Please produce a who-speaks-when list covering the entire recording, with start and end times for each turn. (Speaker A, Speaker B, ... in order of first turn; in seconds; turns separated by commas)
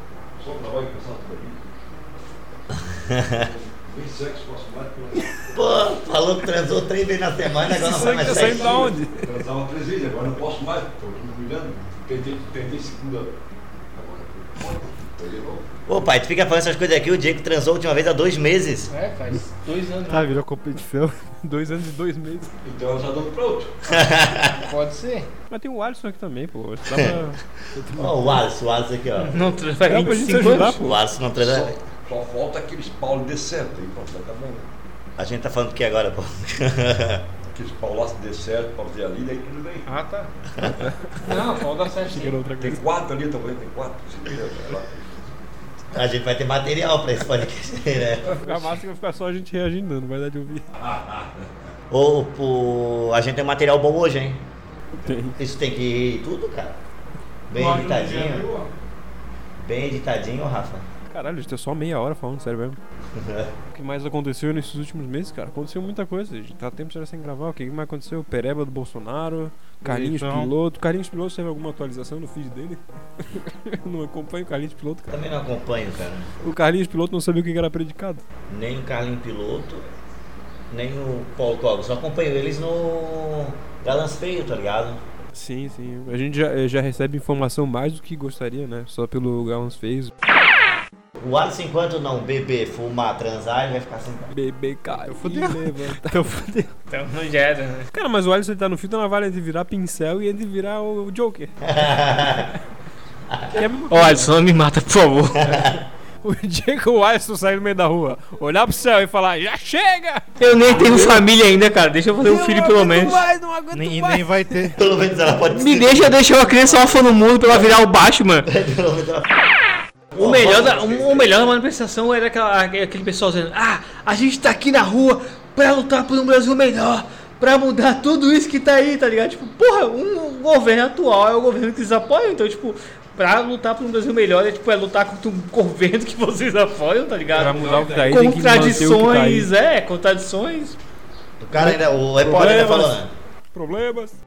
Speaker A: 0.3-1.7, Speaker B: 2.8-3.5, Speaker A: 3.3-5.6, Speaker B: 5.5-8.9, Speaker C: 7.6-9.3, Speaker A: 7.8-13.3, Speaker A: 13.9-15.8, Speaker B: 15.9-18.9, Speaker D: 18.9-20.3, Speaker E: 20.1-21.2, Speaker C: 21.4-22.5, Speaker A: 22.6-23.8, Speaker B: 23.9-24.6, Speaker D: 24.5-25.3, Speaker C: 25.5-27.4, Speaker B: 26.9-27.1, Speaker E: 27.8-28.4, Speaker B: 27.9-29.5, Speaker D: 29.2-30.8, Speaker C: 29.9-31.0, Speaker B: 30.4-31.8, Speaker A: 31.3-34.7, Speaker B: 35.2-37.3, Speaker A: 37.5-39.9, Speaker D: 39.9-40.3, Speaker C: 40.8-42.8, Speaker D: 41.2-42.4, Speaker A: 42.6-45.2, Speaker B: 45.9-48.4, Speaker C: 48.2-50.6, Speaker A: 50.8-51.5, Speaker B: 51.9-54.4, Speaker C: 55.0-55.4, Speaker B: 55.4-56.8, Speaker B: 57.5-58.5, Speaker D: 57.8-58.6, Speaker B: 59.6-60.9, Speaker C: 61.1-62.8, Speaker B: 63.1-63.5, Speaker C: 63.7-75.1, Speaker E: 69.8-70.5, Speaker B: 75.1-76.3, Speaker C: 76.4-78.2, Speaker B: 78.5-79.8, Speaker B: 80.7-85.0, Speaker C: 85.3-90.1, Speaker B: 91.2-94.3, Speaker C: 94.3-96.2, Speaker E: 94.9-96.7, Speaker D: 96.9-97.9, Speaker C: 97.9-101.5, Speaker B: 101.7-102.5, Speaker C: 103.5-104.3, Speaker D: 103.9-105.7, Speaker B: 105.4-105.8, Speaker C: 106.2-111.2, Speaker D: 110.4-113.2, Speaker C: 112.2-114.7, Speaker E: 113.7-114.8, Speaker B: 114.8-117.7, Speaker D: 115.5-118.5, Speaker B: 118.5-119.3, Speaker B: 120.2-121.2, Speaker D: 120.2-140.8, Speaker C: 137.3-139.5, Speaker B: 141.4-143.1, Speaker C: 141.6-143.0, Speaker C: 143.5-144.2